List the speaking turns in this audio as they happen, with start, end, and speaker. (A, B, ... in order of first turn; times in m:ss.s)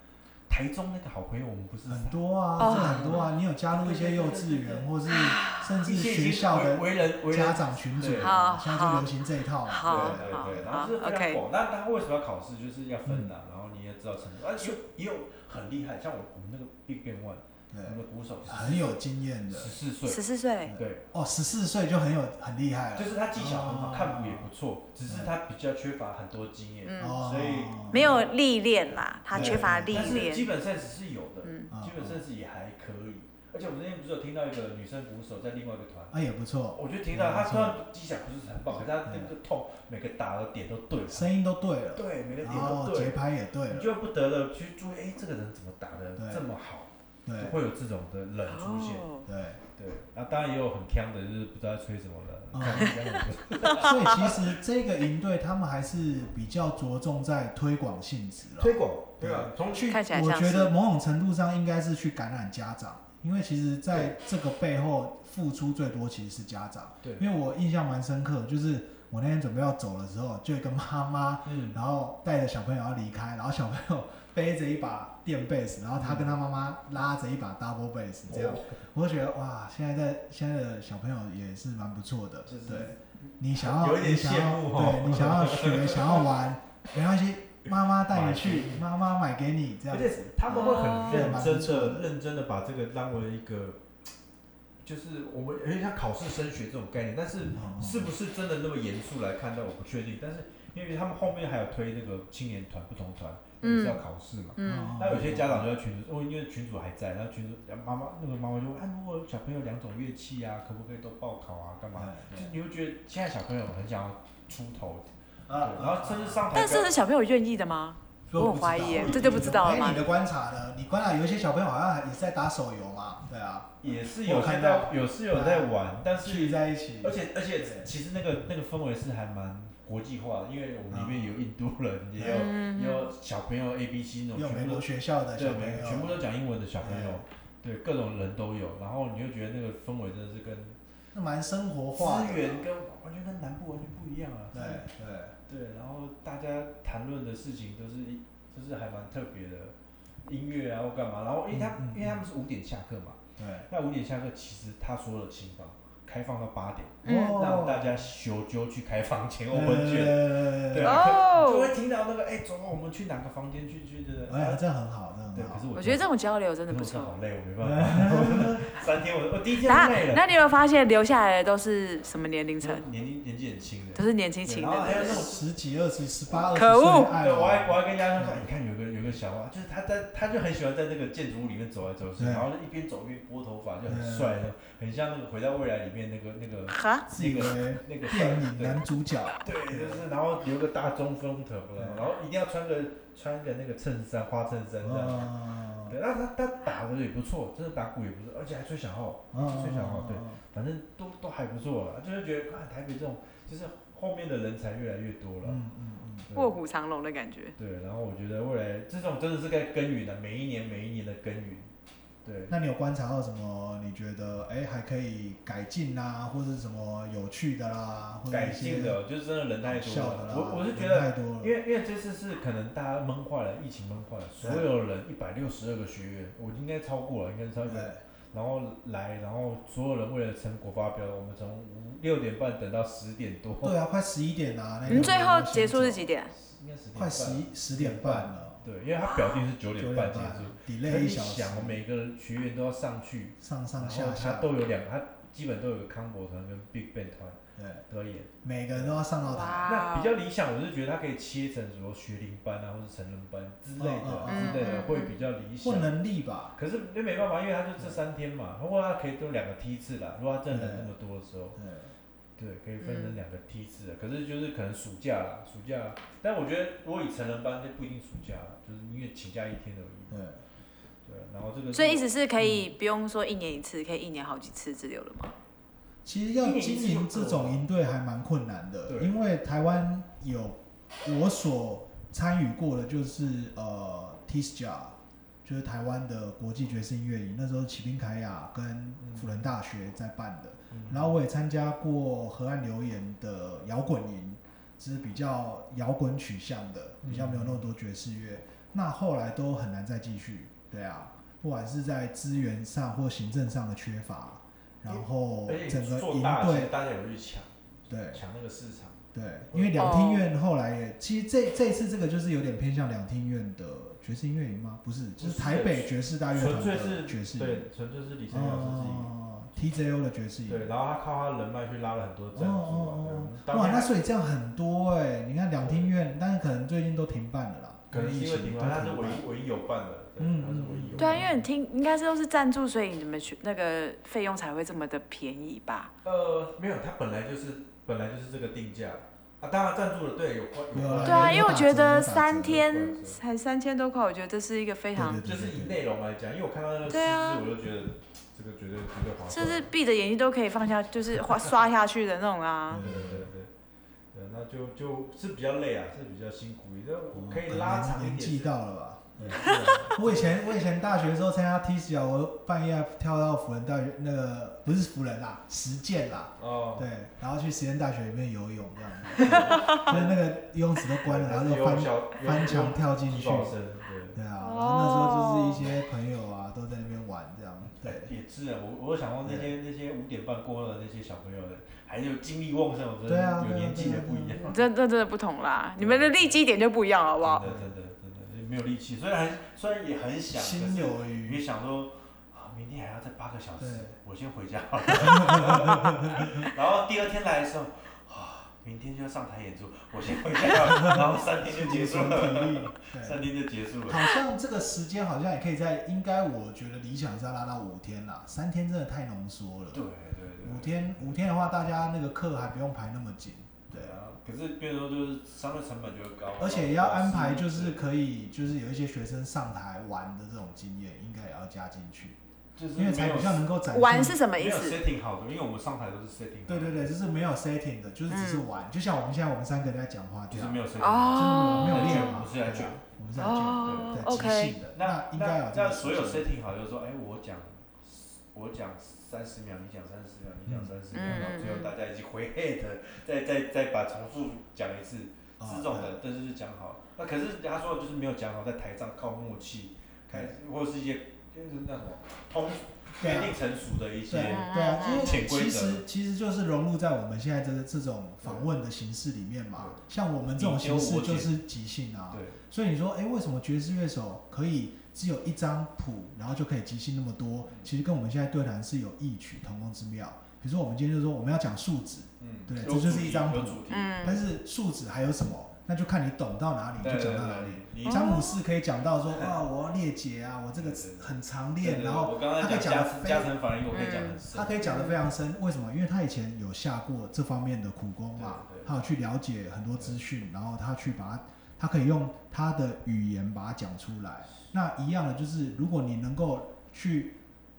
0:00.5-0:04.9 A
0:01.9-0:10.7 B
0:02.6-0:03.3 C
0:05.1-0:05.8 C
0:05.8-0:08.3 A
0:08.2-0:09.1 C
0:09.6-0:11.4 C
0:09.8-0:21.1 A
0:13.0-0:13.3 B
0:17.7-0:19.8 B
0:20.0-0:20.7 C
0:20.6-0:24.5 B
0:22.9-0:28.3 A
0:25.0-0:25.3 B
0:26.8-0:27.2 C
0:27.0-0:28.2 B
0:27.9-0:30.5 C
0:29.3-0:30.3 B
0:29.3-0:36.2 A
0:31.4-0:31.7 C
0:31.7-0:32.2 B
0:36.1-0:37.8 B
0:36.7-0:41.3 A
0:39.0-0:39.3 B
0:41.1-0:43.9 B
0:41.9-0:49.2 A
0:46.2-0:46.4 B
0:47.2-0:47.6 B
0:48.5-0:49.2 C
0:49.2-0:49.6 B
0:49.8-0:54.5 A
0:52.5-0:53.0 B
0:53.7-1:32.1 B
0:58.6-0:59.9 A
0:59.9-1:00.7 C
1:11.4-1:11.8 A
1:16.0-1:16.4 A
1:18.3-1:18.8 A
1:22.4-1:26.3 A
1:28.1-1:28.8 A
1:29.9-1:33.8 A
1:30.5-1:31.3 C
1:34.8-1:56.9 A
1:37.5-1:38.1 B
1:43.6-1:44.0 C
1:44.6-1:45.0 C
1:44.6-1:45.7 B
1:52.0-1:52.5 B
1:55.5-1:56.6 B
1:56.5-2:00.0 C
1:58.3-2:07.9 B
1:58.7-1:59.8 A
2:03.8-2:20.8 A
2:10.9-2:11.3 B
2:12.1-2:12.5 B
2:12.3-2:13.1 C
2:14.3-2:16.2 B
2:16.8-2:17.2 B
2:21.1-2:22.6 B
2:21.9-2:24.8 A
2:24.5-2:25.4 B
2:25.5-2:44.6 A
2:31.5-2:32.3 B
2:33.4-2:33.7 B
2:37.0-2:37.5 C
2:37.0-2:38.0 B
2:39.5-2:41.1 B
2:40.8-2:41.7 C
2:44.3-2:45.7 B
2:45.3-2:46.1 A
2:45.7-2:47.2 C
2:46.7-2:50.3 A
2:47.6-2:48.6 B
2:49.6-2:52.8 C
2:52.6-2:55.4 A
2:53.9-2:55.2 C
2:54.8-2:58.5 B
2:56.5-2:57.2 C
2:57.1-3:08.8 A
3:02.2-3:02.5 B
3:03.8-3:04.4 B
3:06.7-3:07.0 C
3:07.1-3:10.0 B
3:09.4-3:25.6 A
3:11.8-3:12.1 B
3:14.8-3:16.0 B
3:19.3-3:20.4 B
3:25.4-3:26.3 B
3:26.3-3:26.6 A
3:26.3-3:27.5 C
3:27.6-3:31.7 A
3:32.2-3:32.6 A
3:32.5-3:39.0 B
3:38.3-3:53.8 A
3:39.6-3:41.6 B
3:44.4-3:44.7 B
3:47.6-3:48.0 B
3:53.6-3:56.1 B
3:54.8-3:55.2 A
3:54.9-3:56.3 C
3:56.3-4:07.4 A
3:56.9-3:58.6 B
3:59.0-3:59.4 C
3:59.8-4:01.8 B
4:03.4-4:04.5 B
4:07.6-4:07.8 B
4:07.9-4:09.1 A
4:08.4-4:09.7 B
4:09.2-4:10.1 C
4:09.6-4:16.0 A
4:13.8-4:14.8 B
4:14.3-4:15.2 C
4:15.6-4:16.6 B
4:16.6-4:21.6 A
4:20.5-4:20.9 B
4:21.6-4:21.9 B
4:22.4-4:30.2 A
4:22.8-4:23.2 C
4:30.1-4:30.4 B
4:31.0-4:32.0 A
4:31.7-4:35.3 C
4:32.4-4:32.7 B
4:36.0-5:06.7 B
4:36.4-4:37.6 A
4:38.9-4:39.1 A
4:49.0-4:49.4 A
4:50.7-4:51.1 A
4:57.0-4:57.6 A
5:04.8-5:09.9 A
5:07.9-5:08.2 B
5:09.1-5:17.7 B
5:09.8-5:10.3 C
5:15.2-5:19.1 A
5:18.3-5:20.7 B
5:20.5-5:23.9 A
5:22.3-5:29.2 B
5:25.6-5:25.9 A
5:27.9-5:31.3 A
5:30.2-5:31.4 B
5:31.0-5:35.9 C
5:36.0-5:41.6 A
5:40.7-5:42.6 B
5:41.0-5:45.2 C
5:42.3-5:43.2 A
5:45.0-5:45.8 B
5:45.2-5:49.7 A
5:46.9-5:47.4 C
5:49.3-5:52.8 C
5:52.7-5:53.3 B
5:52.8-5:53.5 A
5:54.1-5:58.5 A
5:57.1-6:13.6 B
5:59.2-6:00.4 A
6:06.4-6:06.9 A
6:09.2-6:10.3 A
6:11.0-6:14.2 A
6:14.1-6:18.1 B
6:14.4-6:15.6 C
6:17.6-6:24.6 A
6:19.2-6:19.5 B
6:23.0-6:24.4 B
6:24.4-6:27.4 C
6:25.8-6:26.4 A
6:27.2-6:44.2 A
6:27.4-6:27.7 B
6:30.3-6:31.4 B
6:33.6-6:34.0 B
6:34.9-6:36.5 B
6:40.7-6:43.2 B
6:43.8-6:49.8 B
6:49.7-6:51.5 A
6:50.4-6:54.0 B
6:53.7-6:57.9 A
6:56.4-7:02.2 B
7:02.6-7:03.5 A
7:02.7-7:04.2 B
7:03.7-7:04.8 C
7:04.3-7:06.9 A
7:06.5-7:10.6 B
7:08.1-7:08.5 C
7:10.3-7:12.8 A
7:10.8-7:12.2 C
7:11.1-7:16.3 B
7:13.2-7:14.6 C
7:13.6-7:35.8 A
7:20.4-7:21.4 B
7:20.9-7:21.7 C
7:25.4-7:26.0 B
7:33.0-7:33.4 B
7:34.1-8:03.3 B
7:34.2-7:35.2 C
7:38.2-7:38.5 A
7:39.6-7:39.8 A
7:40.3-7:41.4 A
7:42.1-7:42.4 A
7:52.2-7:54.2 A
7:53.7-7:54.2 C
7:56.8-7:58.2 A
7:57.8-7:58.4 C
8:00.5-8:04.8 A
8:03.7-8:05.0 C
8:04.3-8:17.2 B
8:08.1-8:08.8 A